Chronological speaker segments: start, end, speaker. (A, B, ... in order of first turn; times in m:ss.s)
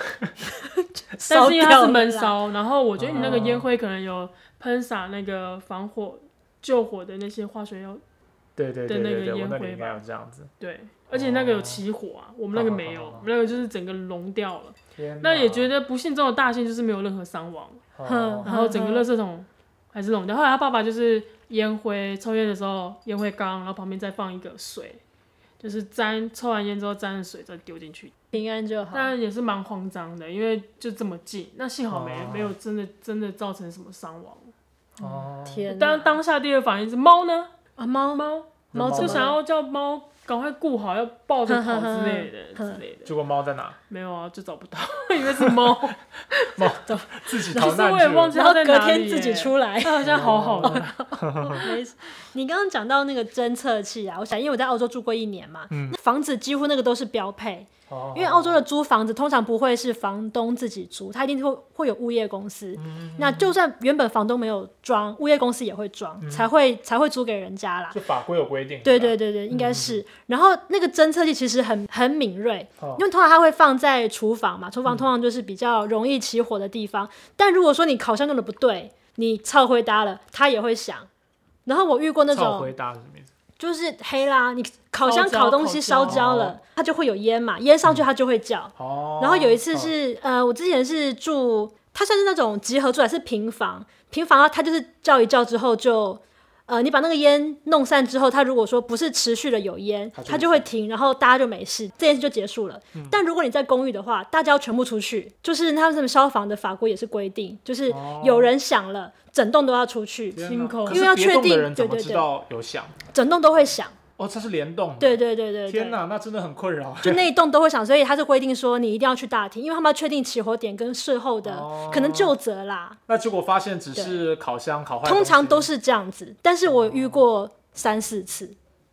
0:00.6-0:02.4 A
0:01.3-0:08.0 B
0:03.0-0:03.7 C
0:08.6-0:10.5 C
0:08.9-0:10.0 B
0:10.6-0:17.8 B
0:11.1-0:11.8 C
0:12.5-0:13.3 C
0:15.0-0:15.7 C
0:18.0-0:18.5 C
0:18.0-0:19.0 A
0:18.4-0:25.0 B
0:25.6-0:28.3 B
0:28.3-0:29.1 A
0:28.9-0:34.5 B
0:31.9-0:32.5 C
0:35.0-0:35.7 C
0:35.0-0:36.2 A
0:35.7-0:37.5 B
0:37.8-0:39.4 A
0:38.1-0:43.1 B
0:38.7-0:39.3 C
0:41.5-0:42.8 A
0:43.0-0:43.8 C
0:43.9-0:46.7 B
0:45.4-0:45.8 C
0:46.6-0:48.4 C
0:46.8-1:08.0 A
0:47.4-0:51.7 B
0:50.0-0:51.6 C
0:55.7-0:56.0 C
0:57.9-0:58.6 C
1:02.8-1:03.6 C
1:06.2-1:06.5 C
1:07.9-1:10.0 C
1:08.8-1:21.1 A
1:12.8-1:13.0 C
1:21.6-1:22.7 A
1:22.3-1:23.3 C
1:23.6-1:52.3 A
1:25.0-1:26.3 B
1:26.1-1:26.6 C
1:28.8-1:29.9 C
1:40.1-1:40.7 C
1:47.9-1:48.5 C
1:50.3-1:53.0 C
1:50.4-1:51.1 B
1:53.1-1:53.9 A
1:54.2-1:57.2 C
1:55.0-1:56.0 A
1:57.0-2:03.0 A
2:01.4-2:02.3 C
2:03.1-2:05.7 C
2:03.9-2:04.2 A
2:05.0-2:08.6 A
2:06.6-2:07.2 C